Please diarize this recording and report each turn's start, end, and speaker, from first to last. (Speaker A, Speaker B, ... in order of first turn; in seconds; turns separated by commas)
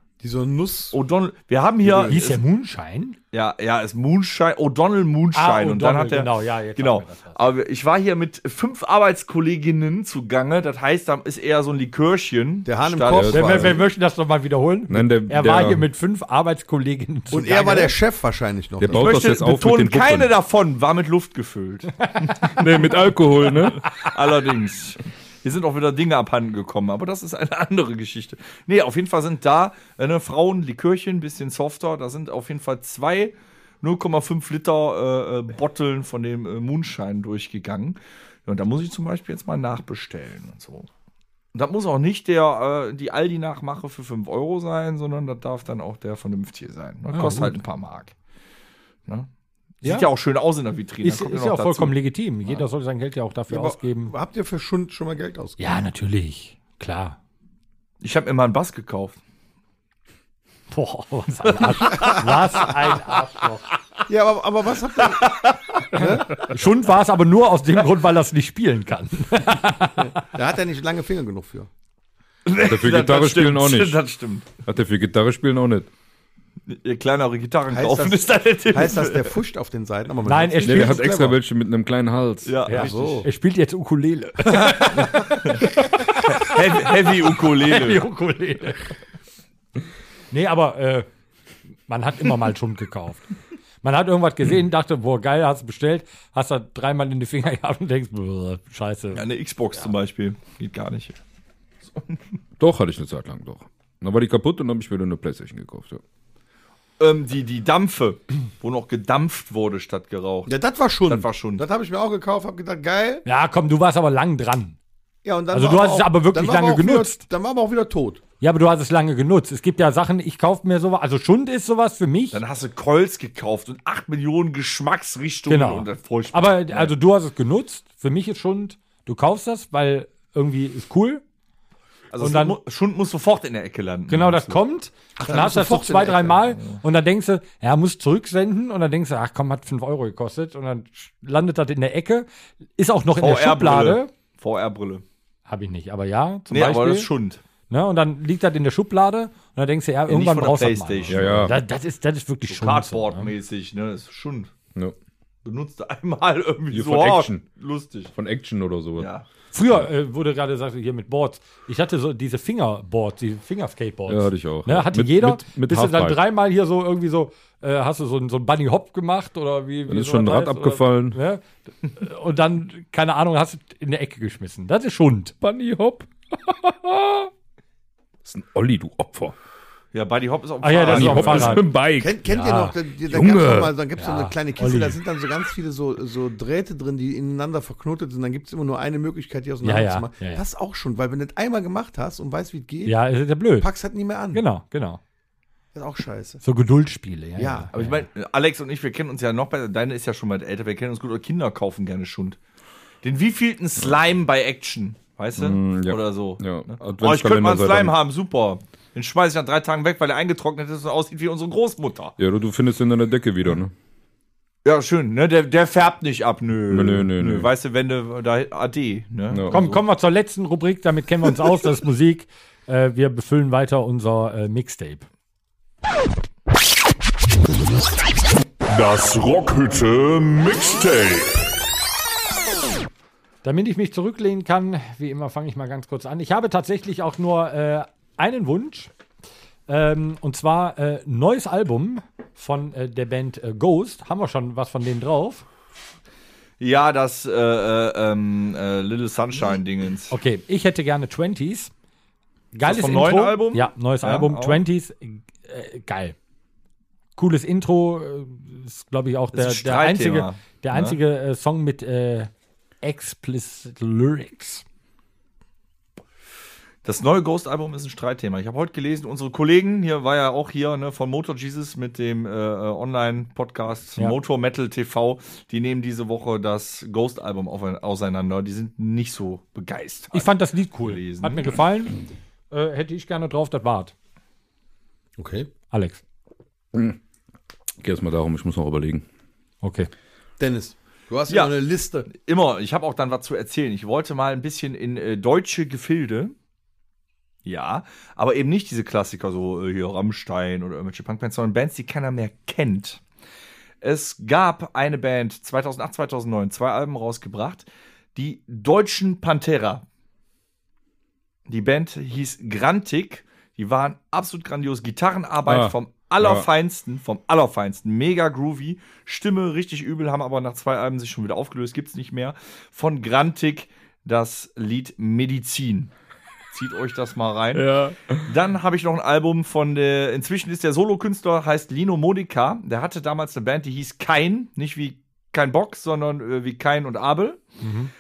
Speaker A: 0.2-1.0, Speaker B: 0.9-2.4, Speaker A: 1.8-2.3, Speaker C: 2.0-3.2, Speaker B: 3.3-13.7, Speaker C: 5.3-7.5, Speaker A: 12.7-13.8, Speaker D: 13.1-13.7, Speaker C: 13.3-17.9, Speaker D: 14.9-15.8, Speaker A: 17.3-19.2, Speaker D: 18.8-20.3, Speaker B: 18.9-22.5, Speaker D: 22.4-23.8, Speaker B: 23.7-40.9, Speaker B: 41.5-48.1, Speaker C: 47.1-47.6, Speaker C: 49.8-50.1, Speaker B: 49.8-52.0, Speaker C: 51.0-54.1, Speaker A: 53.5-55.7, Speaker C: 55.6-57.2, Speaker B: 58.0-59.2, Speaker C: 60.7-63.7, Speaker B: 61.6-62.0, Speaker A: 61.9-62.4, Speaker A: 64.1-66.4, Speaker B: 65.1-66.2, Speaker C: 66.0-70.2, Speaker A: 70.1-71.7, Speaker B: 72.5-74.5, Speaker D: 72.6-74.0, Speaker D: 74.6-75.9, Speaker B: 76.7-79.4, Speaker A: 77.7-81.4, Speaker C: 80.3-81.1, Speaker D: 80.6-82.6, Speaker B: 82.5-83.2, Speaker C: 82.7-89.0, Speaker A: 82.7-83.3, Speaker B: 85.4-85.7, Speaker B: 86.2-88.0, Speaker C: 90.3-91.1, Speaker C: 91.9-93.3, Speaker C: 93.8-99.2, Speaker B: 99.1-101.2, Speaker B: 101.9-102.2, Speaker D: 102.6-106.0, Speaker B: 107.0-110.5, Speaker A: 110.5-113.2, Speaker B: 111.0-111.7, Speaker C: 113.2-114.8, Speaker A: 115.2-118.2, Speaker C: 115.5-117.2, Speaker C: 118.4-122.4, Speaker B: 122.3-127.0, Speaker C: 125.5-131.2, Speaker B: 132.1-134.6, Speaker C: 132.2-132.6, Speaker C: 134.1-142.3, Speaker A: 135.2-136.4, Speaker C: 142.8-144.1, Speaker B: 143.2-145.0, Speaker C: 145.5-147.1, Speaker B: 146.5-147.4, Speaker C: 147.7-153.3, Speaker B: 150.1-151.5, Speaker D: 151.1-151.6, Speaker B: 152.5-154.5, Speaker B: 155.4-158.1, Speaker D: 156.7-157.4, Speaker D: 158.1-159.1, Speaker B: 159.0-159.2, Speaker C: 159.5-175.3, Speaker D: 164.1-166.2, Speaker D: 169.9-171.2, Speaker D: 175.4-177.3, Speaker D: 178.2-179.3, Speaker B: 179.9-181.6, Speaker C: 180.6-181.7, Speaker D: 180.8-182.2, Speaker A: 181.9-193.0, Speaker C: 182.3-182.8, Speaker D: 183.1-183.8, Speaker C: 184.0-185.0, Speaker C: 189.6-190.4, Speaker C: 192.8-193.7, Speaker A: 193.6-194.4, Speaker C: 194.3-195.0, Speaker A: 195.7-196.4, Speaker C: 196.4-198.1, Speaker A: 197.4-197.7, Speaker B: 197.7-202.4, Speaker B: 203.0-212.2, Speaker D: 205.4-208.0, Speaker D: 212.2-213.7, Speaker B: 214.6-219.8, Speaker D: 216.7-217.5, Speaker D: 219.3-219.6, Speaker C: 219.5-225.1, Speaker E: 228.7-231.5, Speaker C: 233.4-238.9, Speaker C: 239.7-245.4, Speaker B: 246.6-250.1, Speaker C: 250.1-251.7, Speaker C: 252.5-256.1, Speaker B: 252.7-254.6, Speaker C: 257.2-262.3, Speaker B: 259.3-261.0, Speaker C: 262.8-264.6, Speaker B: 266.8-281.5, Speaker C: 280.1-282.0, Speaker C: 282.5-283.9, Speaker A: 285.2-285.5, Speaker C: 285.7-286.0, Speaker D: 287.8-289.1, Speaker C: 289.6-289.9, Speaker A: 290.4-292.1, Speaker B: 291.3-296.4, Speaker B: 297.4-303.0, Speaker B: 303.8-309.8, Speaker B: 311.5-325.9, Speaker D: 315.5-316.5, Speaker B: 326.5-327.7, Speaker D: 327.6-328.3, Speaker B: 328.2-337.4, Speaker C: 337.6-337.9